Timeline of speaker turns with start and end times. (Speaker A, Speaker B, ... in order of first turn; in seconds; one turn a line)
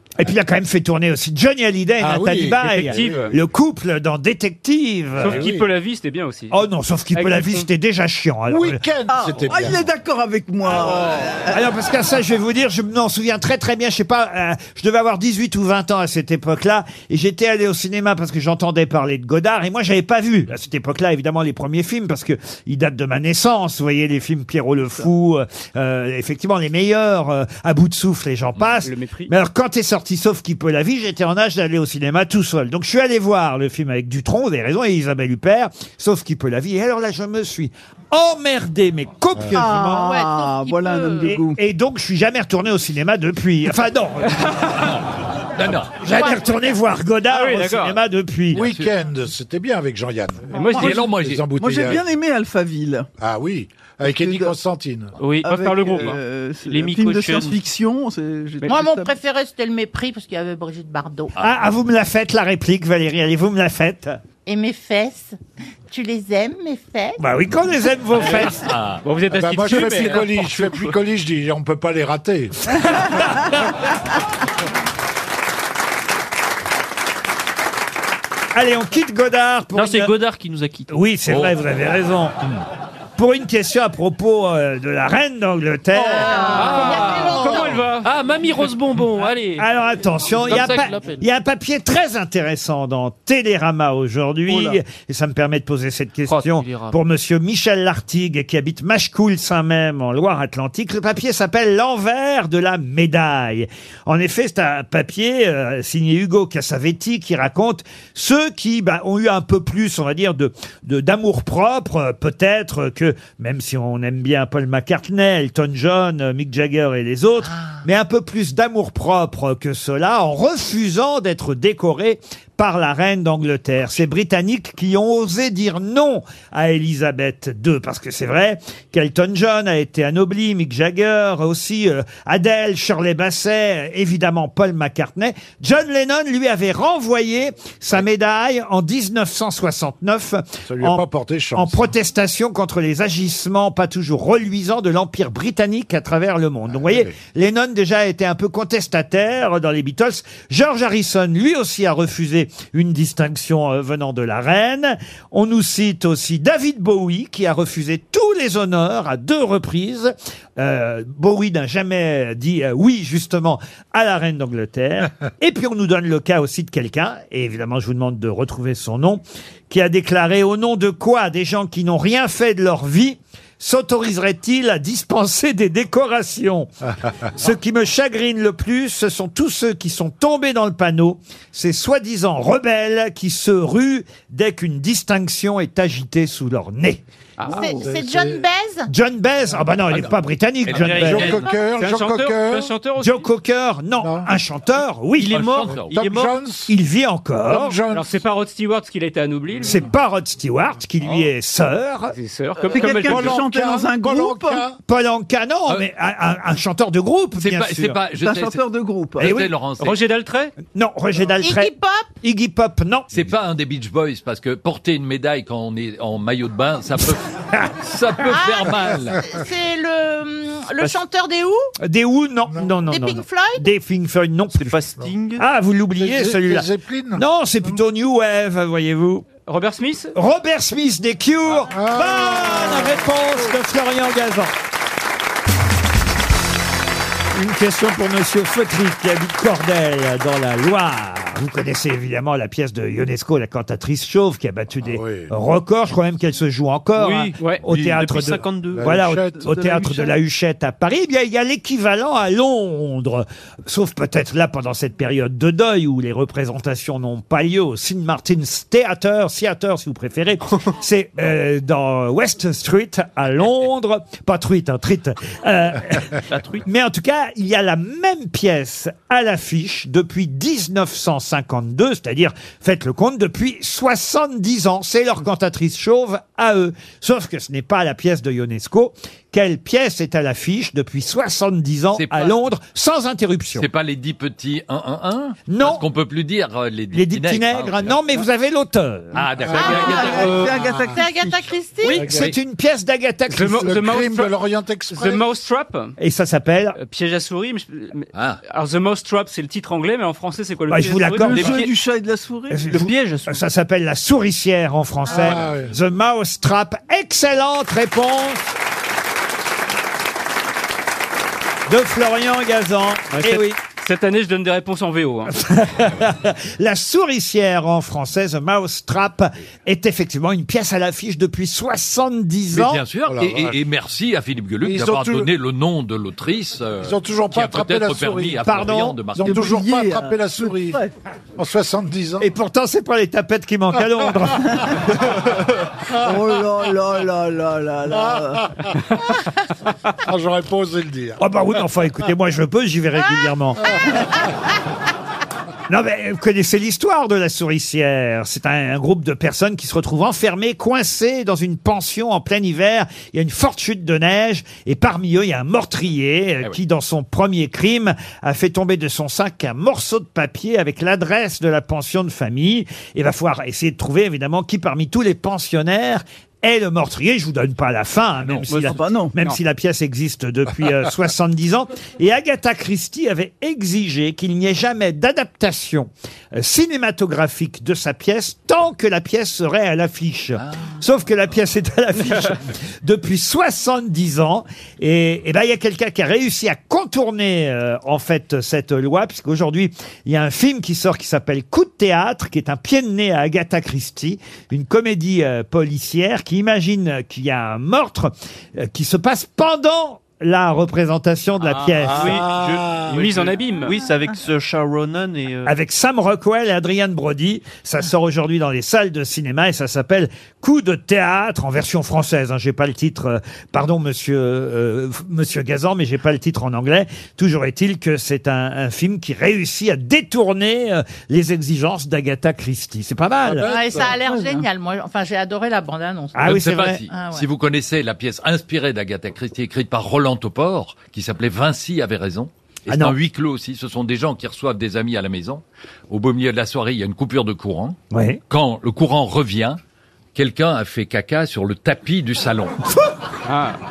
Speaker A: 0.2-5.5
Speaker B: 2.0-3.4
Speaker C: 2.6-3.3
Speaker C: 5.2-6.6
Speaker B: 5.2-5.7
Speaker A: 6.5-8.8
Speaker C: 7.1-7.7
Speaker B: 8.5-9.8
Speaker D: 9.1-11.6
Speaker A: 11.5-40.1
Speaker C: 28.8-29.3
Speaker D: 39.5-41.6
Speaker E: 39.9-41.3
Speaker A: 41.2-44.8
Speaker F: 45.6-46.0
Speaker A: 46.0-48.7
Speaker E: 46.1-46.6
Speaker C: 47.3-48.0
Speaker B: 48.5-52.0
Speaker F: 48.6-48.9
Speaker C: 50.5-51.0
Speaker F: 50.8-51.4
Speaker D: 51.6-53.1
Speaker B: 53.2-55.2
Speaker D: 54.0-54.5
Speaker G: 55.2-56.1
Speaker D: 55.4-59.1
Speaker C: 55.4-56.2
Speaker G: 56.7-57.6
Speaker E: 58.7-61.3
Speaker A: 61.4-64.2
Speaker E: 64.5-65.4
Speaker E: 65.9-67.2
Speaker A: 67.2-68.7
Speaker F: 68.2-69.0
Speaker C: 69.0-70.7
Speaker B: 69.3-72.7
Speaker A: 78.5-80.1
Speaker G: 79.7-80.9
Speaker A: 80.9-82.4
Speaker F: 81.3-81.5
Speaker A: 83.2-86.6
Speaker E: 86.1-87.7
Speaker G: 86.2-87.4
Speaker C: 86.5-88.1
Speaker G: 88.0-89.6
Speaker C: 89.1-89.6
Speaker A: 89.6-141.0
Speaker C: 90.5-90.8
Speaker G: 96.3-96.9
Speaker B: 140.7-141.9
Speaker A: 141.6-176.7
Speaker B: 146.7-147.2
Speaker A: 177.3-187.0
Speaker D: 187.5-187.8
Speaker B: 187.5-188.4
Speaker E: 187.5-188.9
Speaker A: 188.9-191.4
Speaker F: 190.7-191.2
Speaker G: 190.8-191.5
Speaker B: 190.9-192.8
Speaker C: 191.8-193.3
Speaker A: 193.0-195.4
Speaker B: 194.0-194.3
Speaker G: 195.2-196.3
Speaker F: 195.3-196.0
Speaker B: 195.8-196.7
Speaker A: 196.7-197.8
Speaker B: 197.4-198.2
Speaker C: 197.9-199.8
Speaker A: 199.6-202.2
Speaker C: 202.1-203.4
Speaker D: 202.7-204.6
Speaker B: 202.7-204.8
Speaker A: 204.9-208.0
Speaker F: 207.4-208.6
Speaker D: 208.2-209.3
Speaker F: 209.2-210.0
Speaker A: 209.2-209.5
Speaker C: 209.8-210.6
Speaker A: 210.7-213.1
Speaker E: 211.4-212.1
Speaker F: 213.1-219.2
Speaker E: 218.3-221.7
Speaker A: 221.8-224.8
Speaker E: 222.9-223.7
Speaker G: 224.6-225.4
Speaker A: 225.4-229.3
Speaker B: 226.0-227.2
Speaker C: 229.4-230.1
Speaker A: 230.2-234.5
Speaker B: 231.7-233.1
Speaker A: 237.3-283.7
Speaker B: 244.9-245.3
Speaker G: 247.0-248.9
Speaker B: 248.8-249.7
Speaker D: 249.4-250.1
Speaker G: 266.3-266.6
Speaker F: 281.9-282.4
Speaker F: 283.6-288.0
Speaker A: 285.5-285.8
Speaker A: 286.9-289.2
Speaker F: 289.1-290.6
Speaker B: 289.4-289.8
Speaker E: 289.5-292.0
Speaker D: 289.6-291.5
Speaker B: 290.6-290.8
Speaker C: 291.8-292.1
Speaker B: 291.9-292.3
Speaker A: 292.0-293.8
Speaker C: 293.3-294.3
Speaker B: 293.6-295.3
Speaker C: 294.9-295.9
Speaker A: 296.0-296.8
Speaker C: 296.8-301.6
Speaker F: 298.1-298.4
Speaker A: 300.7-301.6
Speaker D: 301.2-302.8
Speaker G: 301.3-301.7
Speaker A: 302.5-308.5
Speaker G: 302.7-303.4
Speaker B: 305.1-305.7
Speaker A: 311.7-313.6
Speaker C: 313.1-315.3
Speaker A: 315.3-322.8
Speaker F: 322.5-329.5
Speaker B: 323.1-323.6
Speaker B: 324.6-325.3
Speaker B: 326.8-328.5
Speaker A: 328.4-329.0
Speaker B: 329.1-330.8
Speaker D: 329.2-330.9
Speaker B: 331.4-332.3
Speaker A: 332.2-334.8
Speaker D: 336.0-338.5
Speaker B: 338.1-338.7
Speaker B: 340.0-341.2
Speaker A: 341.2-343.7
Speaker A: 345.7-402.2
Speaker F: 368.2-368.6
Speaker C: 368.5-369.4
Speaker D: 368.6-369.1
Speaker C: 401.4-401.8
Speaker B: 401.8-403.2
Speaker G: 401.9-405.5
Speaker C: 402.9-403.8
Speaker A: 405.4-423.5
Speaker B: 423.2-423.9
Speaker E: 423.4-426.4
Speaker D: 423.8-424.4
Speaker A: 426.1-426.8
Speaker F: 426.2-437.8
Speaker E: 426.9-427.2
Speaker A: 432.7-433.0
Speaker A: 437.9-438.2
Speaker F: 438.3-439.6
Speaker F: 440.1-442.6
Speaker C: 443.3-443.6